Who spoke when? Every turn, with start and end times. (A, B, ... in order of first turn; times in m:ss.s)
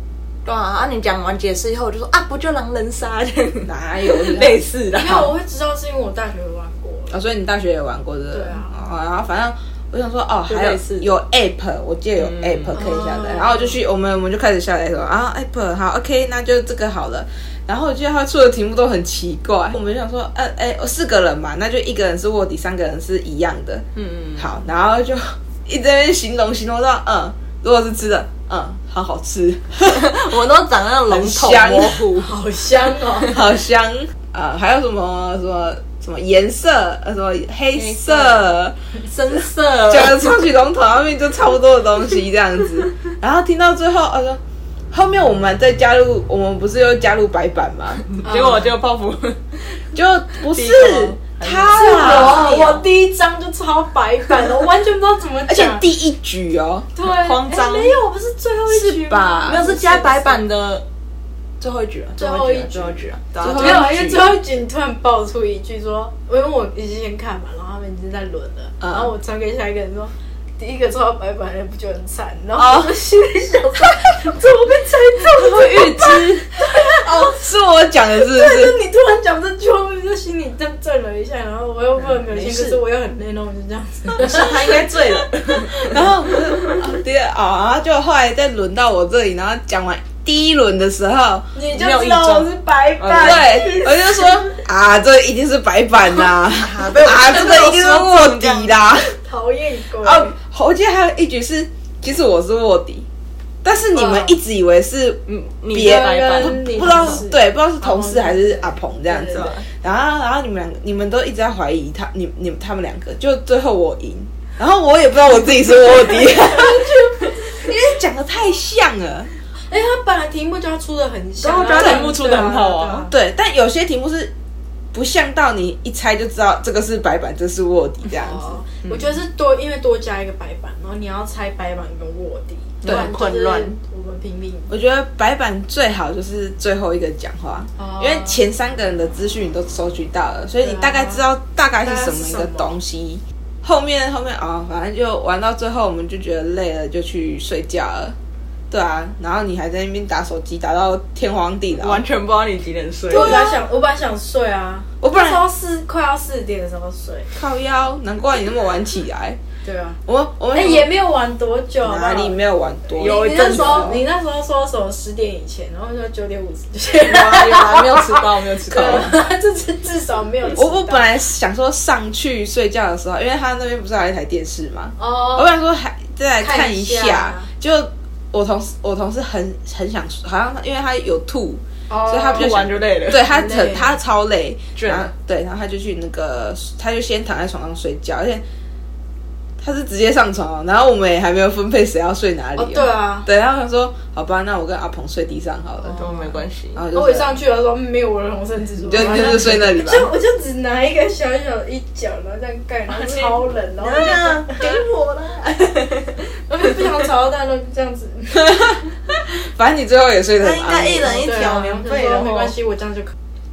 0:00.4-0:05.3 A
0:03.6-0:04.6 B
0:05.0-0:07.2 C
0:07.1-0:30.3 B
0:08.3-0:08.8 C
0:10.5-0:11.1 A
0:12.2-0:12.8 A
0:12.8-0:13.8 C
0:24.0-0:24.5 A
0:29.9-0:32.3 A
0:31.1-0:32.1 B
0:32.2-0:33.4 C
0:33.2-0:38.8 B
0:37.8-0:38.5 A
0:39.0-0:40.3 A
0:39.9-0:48.1 B
0:48.1-0:49.9 A
0:48.2-0:48.7 C
0:50.0-0:52.8 B
0:50.4-0:52.8 A
0:51.7-0:55.9 C
0:55.5-0:56.9 B
0:57.0-1:00.4 C
0:57.0-0:58.0 A
0:58.7-0:59.7 B
0:59.5-1:00.9 A
1:01.6-1:03.9 A
1:02.2-1:17.4 C
1:03.4-1:04.4 B
1:08.8-1:09.1 B
1:12.6-1:13.0 B
1:15.4-1:18.8 B
1:15.4-1:16.4 A
1:18.1-1:26.0 C
1:22.0-1:22.8 A
1:24.2-1:26.8 A
1:25.9-1:31.5 B
1:31.6-1:34.6 C
1:31.7-1:33.8 A
1:33.2-1:39.2 B
1:36.2-1:38.8 A
1:38.9-1:40.4 C
1:40.0-1:43.1 B
1:43.6-1:59.3 B
1:43.9-1:44.4 C
1:45.3-1:47.2 A
1:45.8-1:49.5 C
1:49.2-1:49.7 A
1:55.8-1:57.8 C
1:59.7-2:03.1 C
2:01.4-2:03.1 A
2:01.7-2:02.1 B
2:03.1-2:04.3 B
2:04.9-2:09.0 B
2:08.1-2:14.7 C
2:12.8-2:13.8 A
2:12.8-2:13.1 B
2:14.7-2:28.2 B
2:17.8-2:18.4 C
2:20.6-2:21.2 C
2:21.8-2:22.8 C
2:28.7-2:32.0 B
2:31.8-2:33.5 A
2:33.1-2:37.3 C
2:33.1-2:33.4 B
2:35.0-2:35.4 B
2:37.3-2:39.4 B
2:39.6-2:40.0 C
2:40.1-2:40.9 B
2:40.5-2:42.4 C
2:41.8-2:44.0 B
2:43.0-2:44.0 A
2:43.0-2:51.1 C
2:47.0-2:49.2 A
2:50.5-3:08.4 B
2:55.0-2:55.5 C
2:56.4-2:57.5 C
3:01.9-3:02.6 C
3:02.2-3:03.3 A
3:03.2-3:04.0 C
3:04.8-3:05.1 A
3:09.6-3:17.4 B
3:12.6-3:13.3 C
3:15.8-3:16.2 C
3:15.9-3:16.8 A
3:16.9-3:24.7 C
3:18.9-3:20.1 B
3:19.0-3:19.6 A
3:22.9-3:26.7 A
3:26.5-3:28.9 C
3:29.3-3:31.2 B
3:30.4-3:32.5 A
3:31.0-3:33.1 C